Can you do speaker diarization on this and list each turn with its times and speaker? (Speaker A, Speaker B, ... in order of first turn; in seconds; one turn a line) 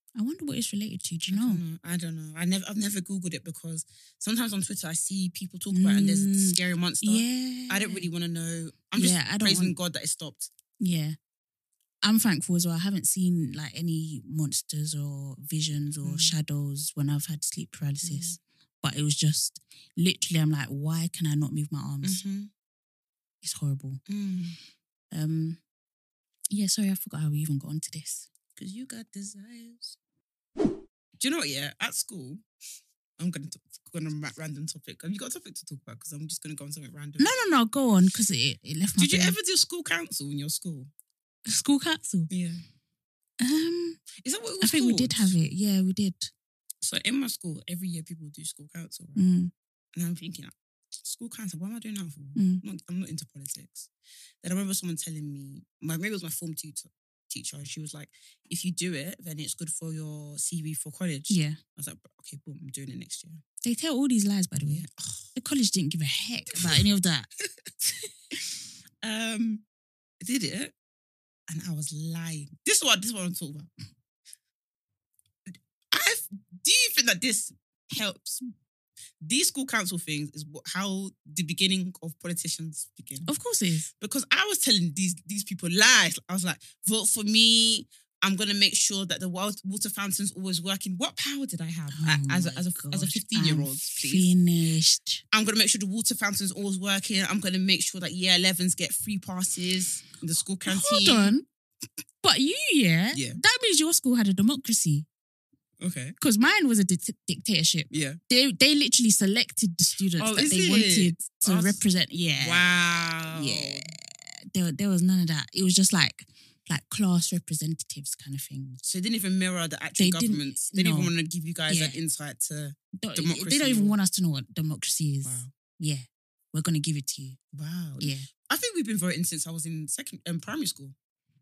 Speaker A: 0.1-1.6
Speaker B: 1.3-10.5
Speaker A: 5.7-8.1
Speaker A: 8.9-9.8
Speaker A: 10.8-11.2
Speaker A: 12.0-22.2
Speaker B: 16.0-16.3
Speaker B: 18.0-18.4
Speaker B: 22.0-22.5
Speaker A: 23.4-24.0
Speaker B: 24.1-24.6
Speaker A: 25.1-25.6
Speaker A: 26.5-28.3
Speaker B: 28.6-30.0
Speaker B: 31.2-32.4
Speaker B: 33.2-37.3
Speaker A: 37.2-39.4
Speaker B: 39.0-40.9
Speaker A: 41.5-42.3
Speaker B: 42.3-42.6
Speaker A: 43.4-44.0
Speaker B: 44.2-45.3
Speaker A: 44.6-46.3
Speaker B: 46.8-49.2
Speaker A: 49.1-49.5
Speaker B: 49.9-53.9
Speaker A: 52.3-52.6
Speaker B: 54.4-63.4
Speaker A: 61.3-61.6
Speaker A: 63.6-67.3
Speaker B: 64.7-65.3
Speaker B: 66.5-66.8
Speaker B: 69.0-69.6
Speaker B: 70.2-70.7
Speaker B: 71.5-73.7
Speaker B: 75.5-78.4
Speaker B: 79.2-83.3
Speaker A: 83.2-83.9
Speaker B: 84.0-94.3
Speaker A: 91.9-95.2
Speaker B: 95.3-101.3
Speaker A: 100.7-101.4
Speaker A: 102.2-105.0
Speaker B: 103.1-103.4
Speaker B: 105.8-106.2
Speaker A: 106.2-118.8
Speaker B: 107.9-108.2
Speaker B: 110.2-111.8
Speaker B: 112.4-113.9
Speaker B: 118.8-124.0
Speaker A: 120.0-121.1
Speaker A: 121.7-122.0
Speaker A: 123.0-127.4
Speaker B: 125.2-125.5
Speaker B: 127.5-130.9
Speaker A: 128.0-128.3